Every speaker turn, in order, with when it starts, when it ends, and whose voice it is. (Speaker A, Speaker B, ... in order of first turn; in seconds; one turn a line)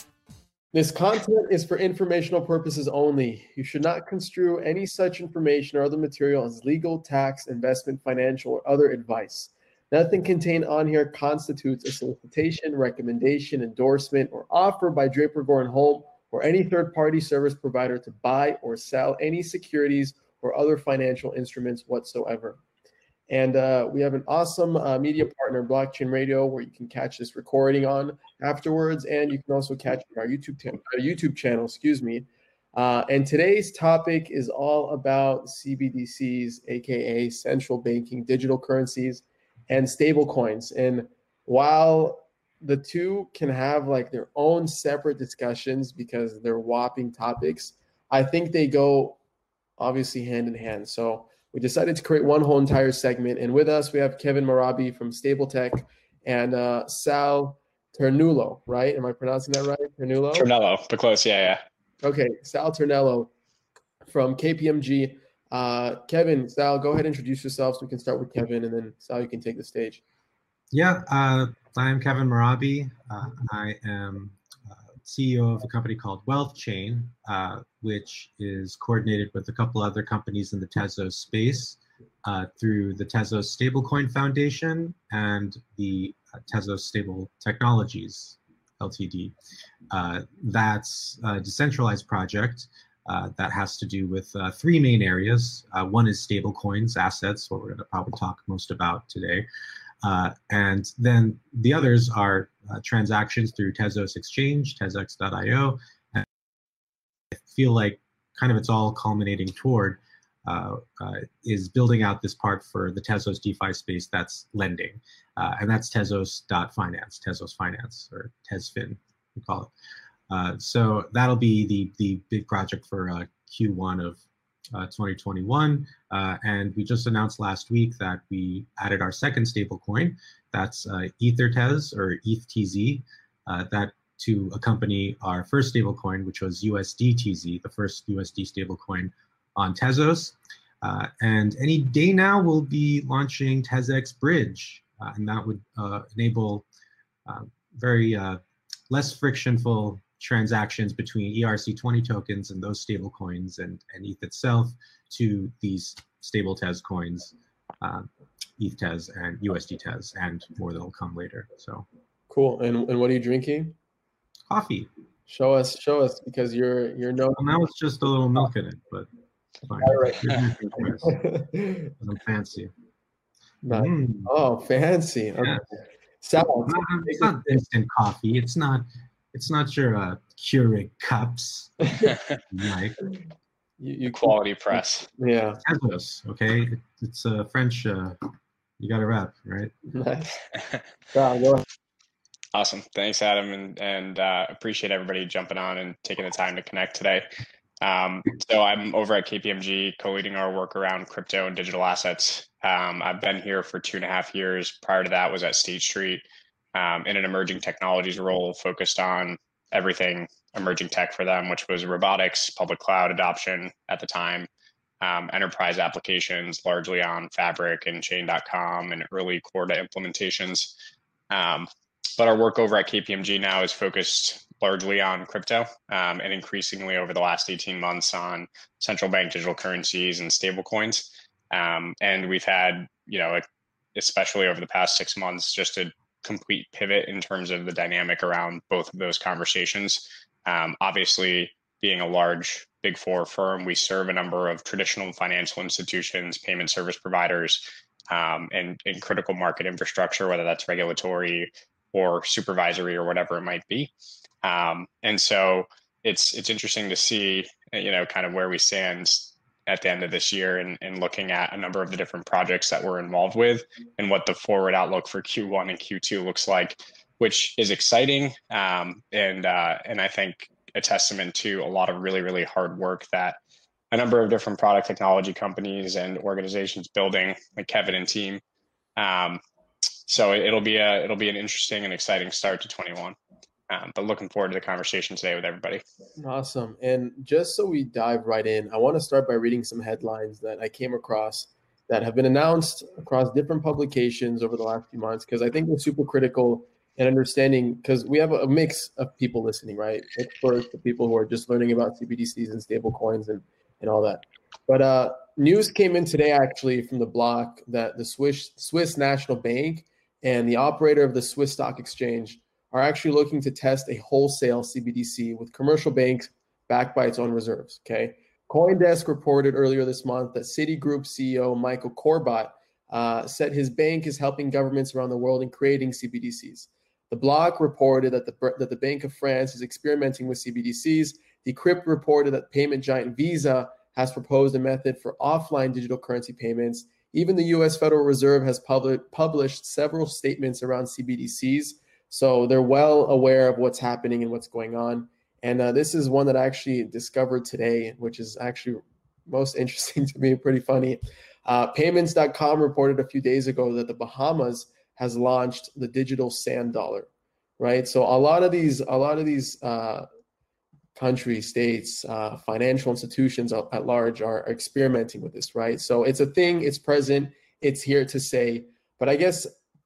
Speaker A: 0.7-22.6
Speaker A: 23.3-49.2
Speaker A: 49.8-60.5
Speaker B: 60.3-61.6
Speaker A: 62.0-63.3
Speaker A: 64.1-70.0
Speaker C: 70.7-74.4
Speaker C: 75.0-89.4
Speaker C: 89.9-99.5
Speaker C: 100.0-106.3
Speaker C: 107.3-119.7
Speaker C: 120.3-124.2
Speaker C: 124.7-146.7
Speaker C: 147.3-161.8
Speaker A: 162.3-163.8
Speaker C: 164.5-164.9
Speaker A: 165.3-167.7
Speaker C: 167.4-169.1
Speaker C: 169.6-171.1
Speaker A: 169.8-171.9
Speaker C: 172.0-172.7
Speaker A: 173.6-175.6
Speaker C: 173.7-174.3
Speaker A: 176.2-177.6
Speaker C: 176.7-183.0
Speaker A: 183.8-185.6
Speaker B: 184.1-185.1
Speaker C: 185.7-188.2
Speaker C: 188.8-189.7
Speaker A: 189.9-190.4
Speaker A: 191.1-191.6
Speaker B: 192.5-197.3
Speaker B: 197.8-206.2
Speaker B: 206.8-214.5
Speaker B: 215.0-220.7
Speaker B: 221.3-233.4
Speaker B: 234.0-253.9
Speaker B: 254.4-273.4
Speaker B: 273.9-278.4
Speaker B: 279.0-279.4
Speaker B: 280.1-283.2
Speaker B: 283.7-285.8
Speaker A: 286.2-360.1
Speaker A: 360.9-369.5